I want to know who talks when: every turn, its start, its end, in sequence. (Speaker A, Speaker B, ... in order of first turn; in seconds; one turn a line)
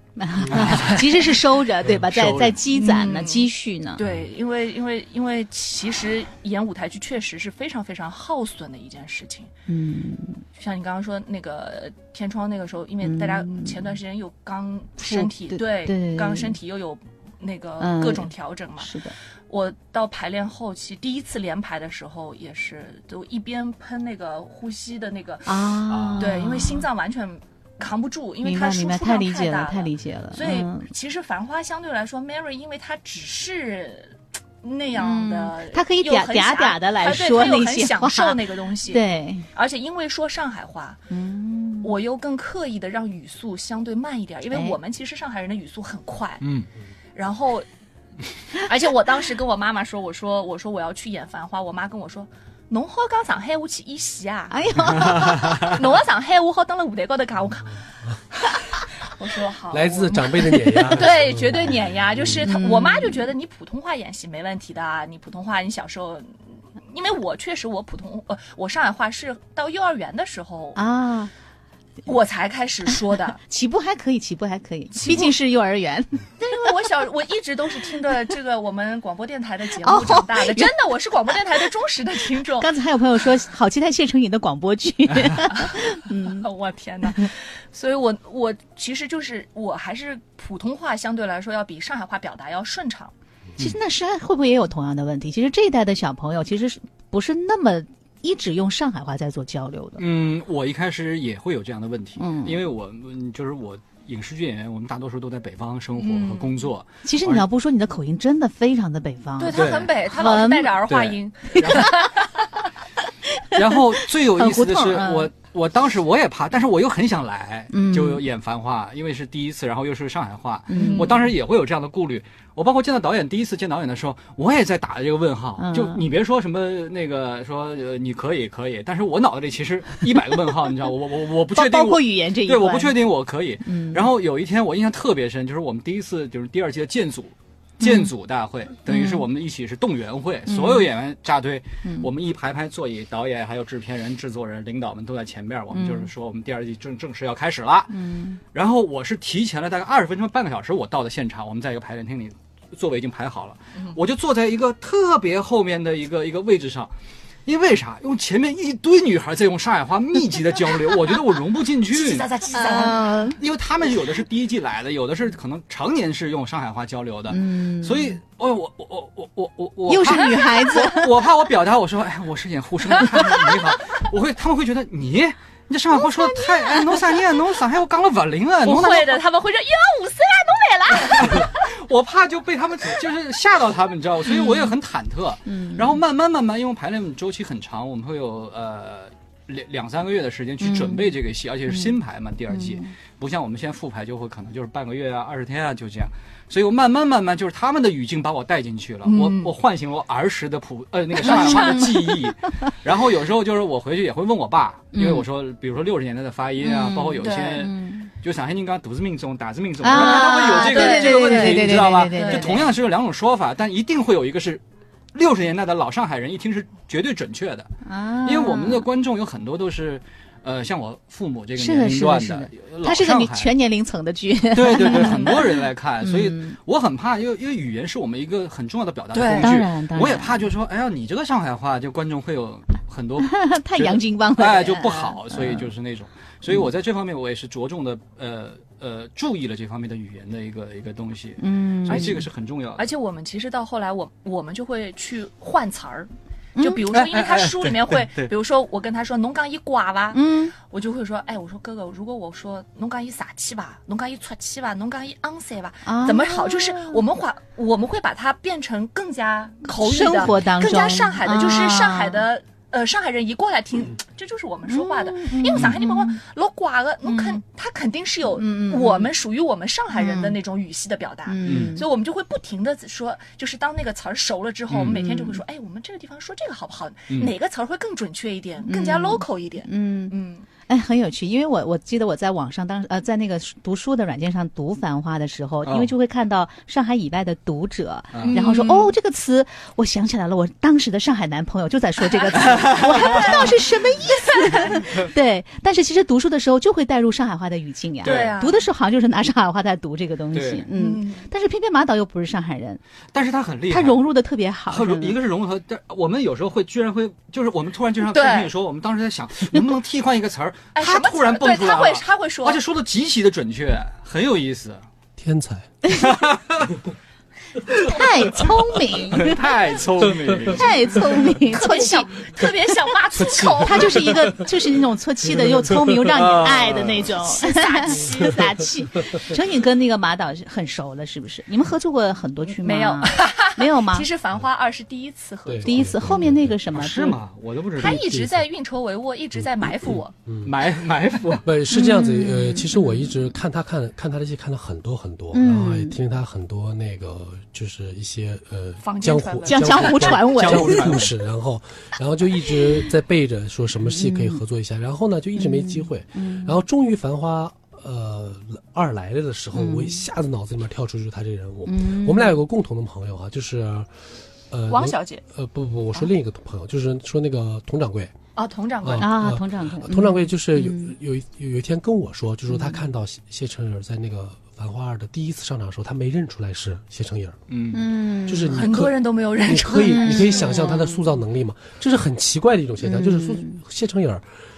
Speaker A: 0.2-4.0
Speaker B: 0.5-1.0
Speaker C: 0.5-1.1
Speaker B: 1.9-2.6
Speaker C: 2.7-9.5
Speaker A: 9.7-10.4
Speaker C: 10.5-41.0
Speaker A: 13.0-13.8
Speaker A: 15.0-16.6
Speaker A: 17.8-19.1
Speaker A: 25.4-26.9
Speaker B: 25.9-26.5
Speaker A: 28.4-30.9
Speaker A: 35.0-39.5
Speaker A: 41.1-41.9
Speaker C: 41.8-46.4
Speaker A: 44.5-44.8
Speaker B: 46.4-46.7
Speaker C: 47.1-47.6
Speaker C: 48.5-57.8
Speaker A: 54.5-55.7
Speaker B: 55.1-55.6
Speaker C: 58.6-66.3
Speaker D: 59.7-61.7
Speaker A: 62.4-63.3
Speaker C: 66.9-70.8
Speaker A: 70.7-71.3
Speaker C: 72.0-73.4
Speaker A: 73.5-76.7
Speaker C: 74.9-75.3
Speaker C: 76.4-82.7
Speaker A: 79.8-80.8
Speaker A: 81.3-81.7
Speaker A: 82.6-86.5
Speaker C: 86.3-93.1
Speaker A: 93.6-100.0
Speaker B: 100.0-107.4
Speaker A: 102.2-102.6
Speaker C: 106.0-106.5
Speaker A: 107.0-110.8
Speaker C: 109.4-112.3
Speaker B: 109.5-110.0
Speaker B: 110.9-111.9
Speaker A: 111.5-112.1
Speaker A: 113.3-115.3
Speaker B: 113.5-147.9
Speaker A: 117.7-118.2
Speaker A: 120.7-121.2
Speaker C: 120.7-121.2
Speaker A: 125.6-126.0
Speaker A: 131.5-133.0
Speaker A: 133.7-134.0
Speaker A: 137.8-138.1
Speaker A: 138.9-139.2
Speaker A: 140.5-140.9
Speaker A: 141.8-142.1
Speaker A: 145.7-146.1
Speaker A: 147.9-148.4
Speaker B: 148.5-156.9
Speaker B: 157.4-162.3
Speaker C: 161.9-163.3
Speaker A: 162.5-163.4
Speaker B: 163.4-179.2
Speaker A: 167.3-168.2
Speaker A: 169.9-171.1
Speaker C: 173.1-173.5
Speaker C: 178.6-181.6
Speaker B: 181.0-214.6
Speaker A: 185.5-186.0
Speaker A: 190.6-191.1
Speaker A: 192.5-192.9
Speaker C: 199.1-199.5
Speaker C: 201.2-201.8
Speaker A: 201.2-202.3
Speaker A: 204.9-205.2
Speaker A: 206.6-208.1
Speaker C: 207.2-207.6
Speaker A: 209.8-212.7
Speaker C: 209.9-212.6
Speaker B: 215.1-217.7
Speaker A: 217.8-218.8
Speaker B: 218.2-223.5
Speaker A: 221.6-226.6
Speaker B: 224.5-242.9
Speaker C: 229.1-229.6
Speaker A: 229.4-230.5
Speaker A: 233.2-235.7
Speaker A: 241.4-242.2
Speaker C: 241.9-242.2
Speaker C: 242.8-280.4
Speaker A: 246.6-246.8
Speaker B: 246.9-248.3
Speaker A: 250.1-250.5
Speaker A: 255.8-257.0
Speaker A: 259.6-262.3
Speaker A: 264.7-266.2
Speaker A: 267.0-267.4
Speaker A: 268.4-269.1
Speaker A: 269.9-270.4
Speaker A: 271.2-271.9
Speaker B: 271.4-271.8
Speaker B: 274.7-275.0
Speaker A: 274.9-275.4
Speaker A: 278.6-280.1
Speaker A: 280.7-302.8
Speaker B: 285.6-285.9
Speaker B: 288.1-288.4
Speaker C: 288.2-288.9
Speaker B: 292.4-293.5
Speaker C: 293.1-293.4
Speaker C: 294.4-294.8
Speaker B: 298.0-298.4
Speaker C: 298.0-298.7
Speaker B: 300.3-300.6
Speaker C: 300.7-301.3
Speaker B: 303.1-304.0
Speaker A: 303.7-305.1
Speaker B: 304.7-314.8
Speaker C: 308.1-308.5
Speaker C: 310.8-312.6
Speaker D: 315.2-315.7
Speaker A: 315.8-316.1
Speaker B: 315.9-316.7
Speaker C: 317.7-318.0
Speaker A: 317.8-319.4
Speaker B: 319.1-321.2
Speaker A: 320.5-322.1
Speaker C: 320.9-324.3
Speaker A: 323.4-334.1
Speaker D: 325.6-326.1
Speaker B: 326.0-327.1
Speaker C: 327.1-328.7
Speaker C: 332.5-336.0
Speaker D: 335.4-336.6
Speaker A: 335.6-337.2
Speaker B: 336.7-338.2
Speaker C: 337.8-340.1
Speaker D: 337.8-338.4
Speaker D: 339.6-340.5
Speaker B: 340.4-341.5
Speaker D: 341.4-363.9
Speaker A: 341.7-343.1
Speaker A: 345.3-346.0
Speaker C: 348.8-350.3
Speaker A: 349.5-351.0
Speaker B: 350.3-351.1
Speaker A: 353.9-354.4
Speaker A: 355.4-356.6
Speaker A: 359.5-360.0
Speaker A: 361.6-362.4
Speaker D: 364.5-368.1
Speaker C: 364.7-365.2
Speaker C: 368.4-369.1
Speaker D: 368.8-377.4
Speaker A: 369.0-370.9
Speaker A: 372.5-372.8
Speaker B: 377.5-377.8
Speaker A: 377.7-378.6
Speaker D: 378.2-384.2
Speaker C: 378.5-380.8
Speaker A: 379.8-381.1
Speaker A: 382.8-383.6